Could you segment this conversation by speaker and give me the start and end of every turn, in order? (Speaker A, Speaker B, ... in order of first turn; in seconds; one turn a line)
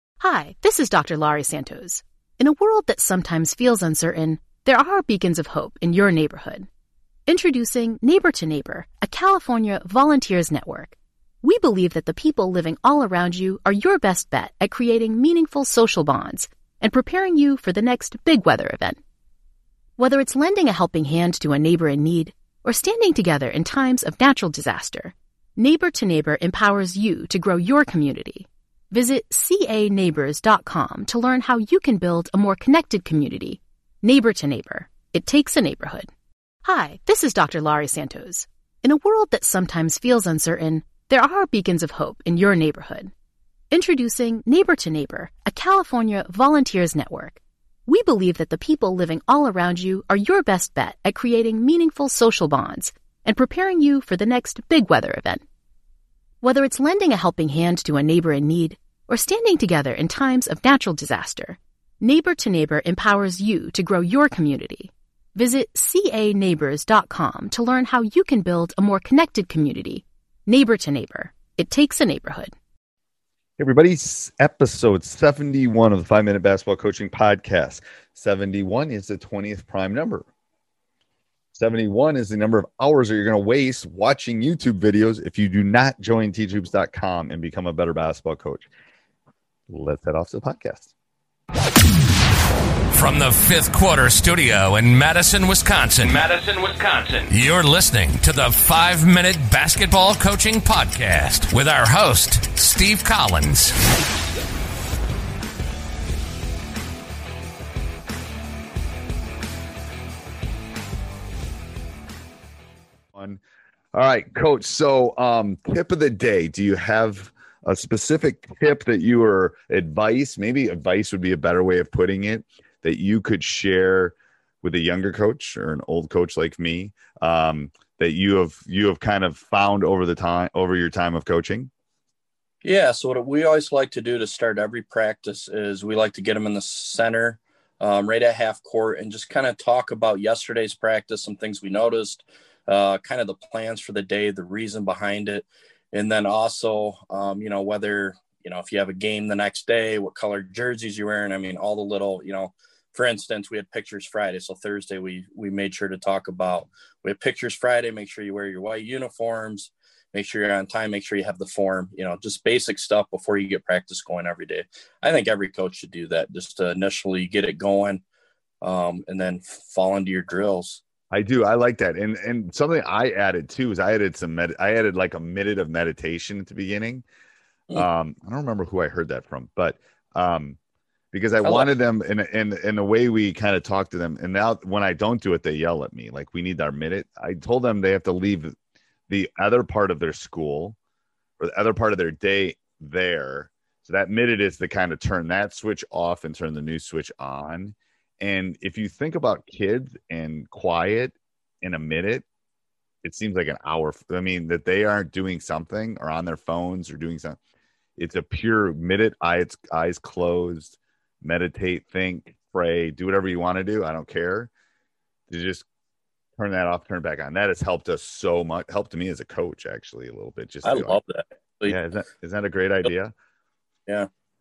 Speaker A: 0.2-6.7
Speaker A: 7.3-19.0
Speaker A: 20.0-36.1
Speaker A: 36.6-43.1
Speaker A: 43.7-55.4
Speaker A: 56.4-72.5
Speaker B: 73.6-80.2
Speaker B: 81.5-88.7
Speaker B: 89.7-90.9
Speaker C: 92.9-103.7
Speaker B: 113.1-113.4
Speaker B: 113.9-131.7
Speaker D: 132.6-168.0
Speaker D: 168.6-170.8
Speaker B: 171.1-177.0
Speaker B: 177.7-180.6
Speaker B: 181.1-188.5
Speaker D: 181.4-181.7
Speaker B: 189.1-190.8
Speaker B: 191.4-202.2
Speaker B: 203.0-207.4
Speaker B: 208.0-214.5
Speaker B: 215.3-215.6
Speaker B: 216.4-221.0
Speaker D: 220.6-221.8
Speaker B: 221.7-223.1